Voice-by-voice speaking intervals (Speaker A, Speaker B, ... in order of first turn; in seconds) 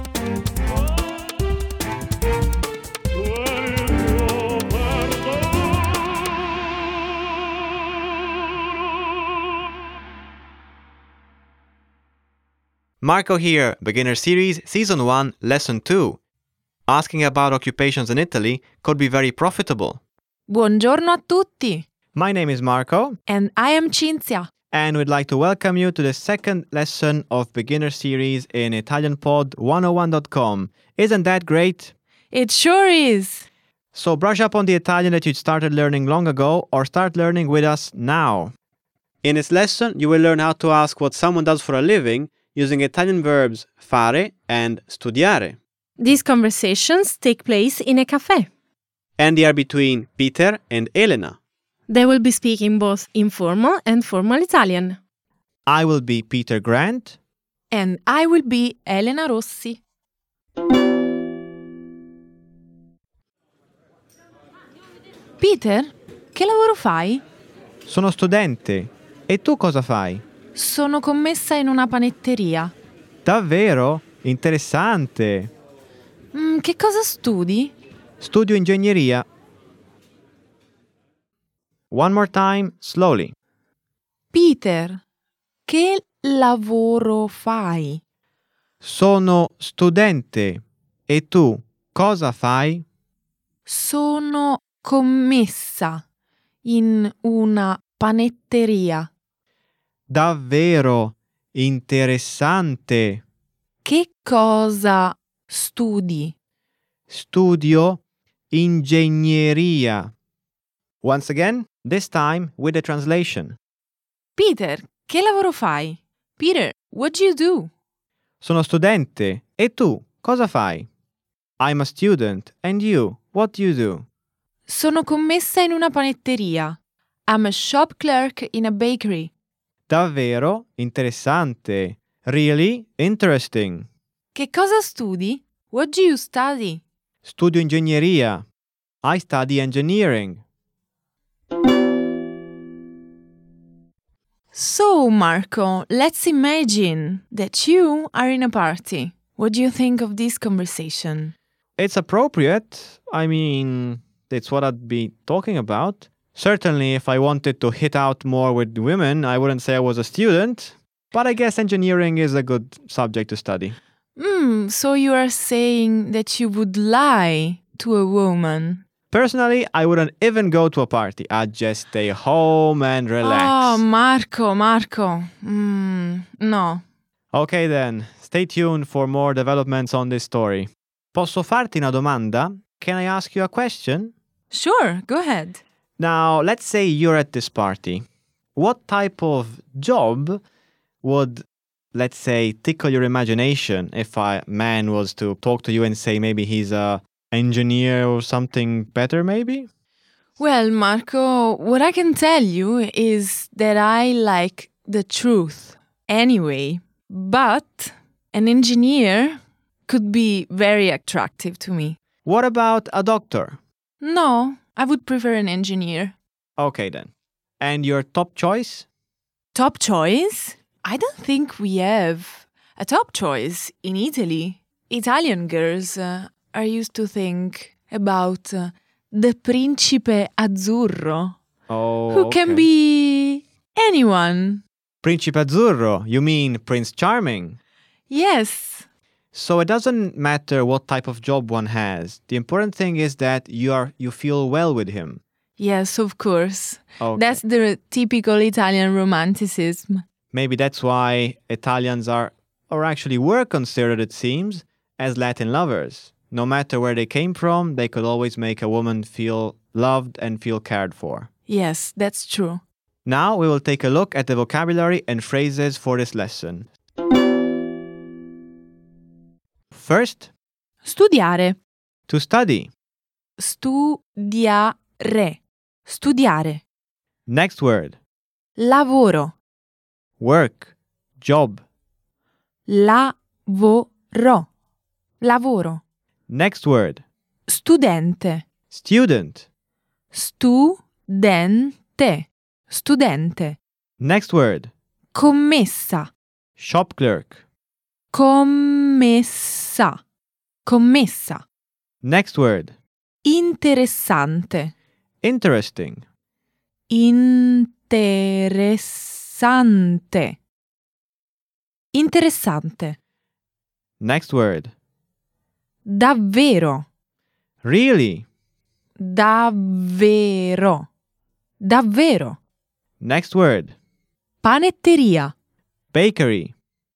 Speaker A: 13.0-16.2, 16.9-20.0, 22.1-23.2, 24.7-31.9, 33.9-38.5, 39.2-45.6, 49.2-51.4, 55.7-57.2, 67.8-70.2, 73.2-75.5, 78.2-79.3, 81.9-83.3, 88.8-92.8, 100.1-103.2, 107.1-110.1, 111.0-113.6, 118.4-120.9, 121.6-124.1, 129.9-133.9, 137.2-138.4, 139.0-140.4, 151.8-163.8, 169.1-173.8, 177.3-184.1, 186.0-190.4, 191.0-199.7, 212.2-213.6, 216.6-218.9, 231.7-232.7, 235.0-237.6, 239.3-245.2, 247.0-247.4, 250.3-261.3, 263.1-266.7, 269.7-270.3, 272.1-272.7, 277.3-278.0, 280.2-281.6, 286.3-287.0, 288.7-289.5, 294.0-294.7, 296.6-297.4, 302.0-302.7, 305.2-306.1, 314.0-314.7, 317.6-318.3, 323.0-323.8, 325.9-326.5
Speaker B: 20.5-21.9, 23.3-24.5, 32.3-33.5, 57.7-59.8, 65.4-67.2, 70.5-72.7, 76.3-77.7, 84.3-85.0, 85.7-88.0, 93.7-96.0, 96.6-99.1, 103.8-106.3, 114.3-117.7, 124.7-129.3, 134.3-136.8, 144.5-151.3, 164.2-168.8, 173.2-176.8, 184.5-185.6, 200.4-212.0, 214.0-216.2, 219.5-231.4, 232.1-234.6, 238.1-238.9, 245.6-250.0, 261.5-262.6, 270.8-271.6, 273.4-276.6, 278.6-279.4, 282.7-284.5, 285.2-285.8, 287.5-288.4, 290.1-293.6, 295.1-296.1, 298.1-300.0, 300.6-301.4, 303.2-304.7, 306.9-310.4, 311.9-313.0, 315.9-316.9, 319.0-320.9, 321.6-322.4, 324.4-325.3
Speaker C: 46.0-48.5, 51.9-55.0